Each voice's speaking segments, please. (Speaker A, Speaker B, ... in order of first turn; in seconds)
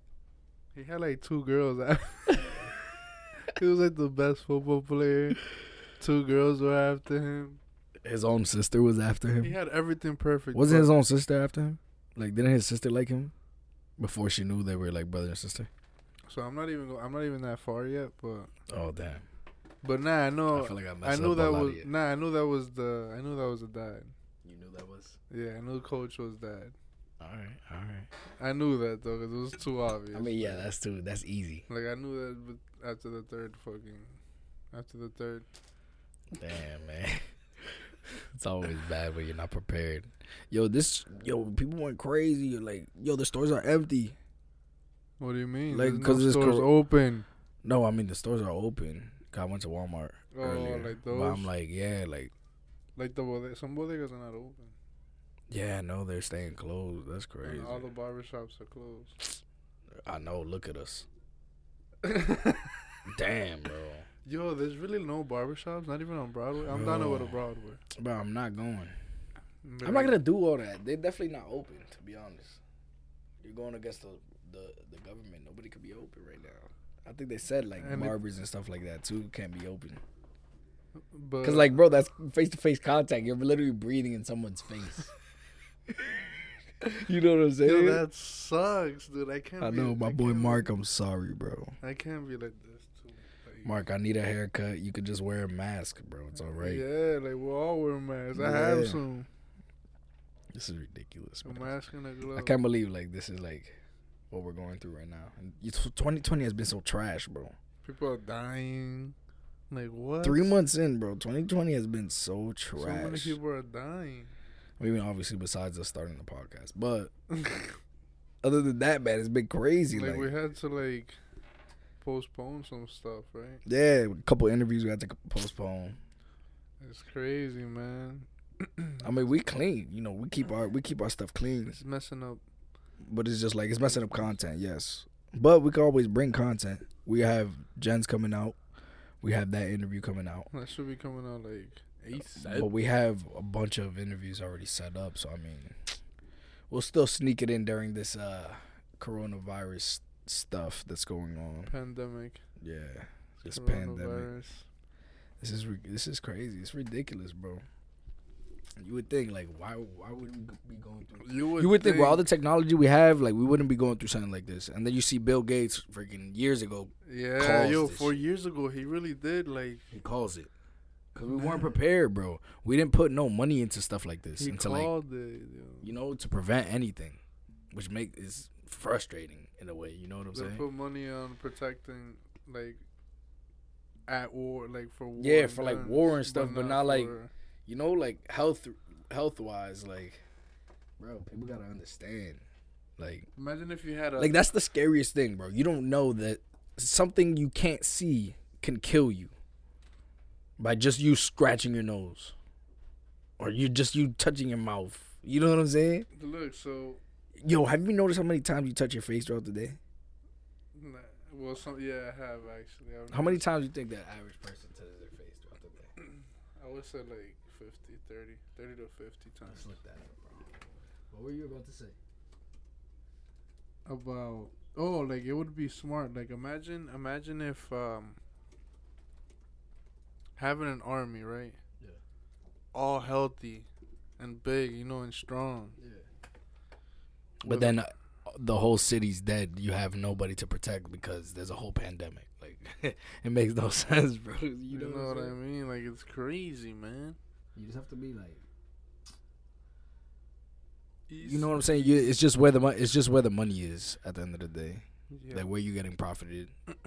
Speaker A: 0.8-2.7, 3.5-5.4, 6.0-7.6, 9.4-10.9, 16.3-18.5, 19.8-24.1, 25.3-26.8, 28.4-30.7, 31.7-34.2, 34.7-35.5, 45.2-47.3, 50.3-51.5, 53.0-54.8, 57.4-59.4, 62.0-62.8, 64.2-67.8, 69.6-70.2, 77.8-78.2, 81.0-81.8, 87.6-90.7, 91.8-93.8, 96.5-99.3, 101.4-102.6, 107.8-109.2, 109.7-110.5, 112.8-114.3, 117.3-117.7, 119.9-121.2, 122.0-123.6, 126.8-129.1, 131.8-132.4, 133.8-134.3, 140.5-142.7, 151.7-152.4, 153.4-154.7, 161.2-162.2, 167.1-169.8, 171.3-171.8, 174.4-175.9, 180.3-182.8, 184.1-187.3, 193.4-194.4, 206.1-207.0, 210.7-213.4, 216.0-219.8, 223.9-228.2, 230.4-231.6, 232.7-233.7, 234.2-235.8, 237.4-237.8, 244.7-247.2, 251.1-252.2, 255.1-255.5
Speaker B: 8.0-9.6, 10.5-13.3, 14.0-15.7, 18.7-19.2, 20.5-21.9, 24.4-25.2, 27.2-28.1, 30.1-31.7, 36.3-44.2, 45.7-46.7, 47.6-52.3, 55.5-57.9, 60.0-61.1, 63.1-64.1, 66.7-67.4, 67.9-69.0, 69.8-72.6, 73.4-80.0, 81.4-85.1, 86.8-88.0, 89.6-91.8, 93.7-96.8, 98.3-99.0, 100.5-101.8, 102.3-103.8, 104.3-107.6, 110.2-113.4, 114.8-117.1, 118.4-120.3, 123.7-126.0, 129.0-131.8, 133.1-138.6, 139.2-140.5, 142.1-146.0, 146.7-151.7, 152.6-154.3, 155.4-157.6, 158.8-168.2, 169.9-170.5, 171.2-174.9, 175.8-177.2, 177.7-180.7, 185.2-190.2, 191.0-192.4, 193.0-193.3, 194.2-199.3, 200.6-202.3, 203.4-206.1, 207.4-209.8, 213.1-215.9, 219.5-222.0, 235.8-236.1, 237.4-245.3, 247.6-248.4, 251.2-256.5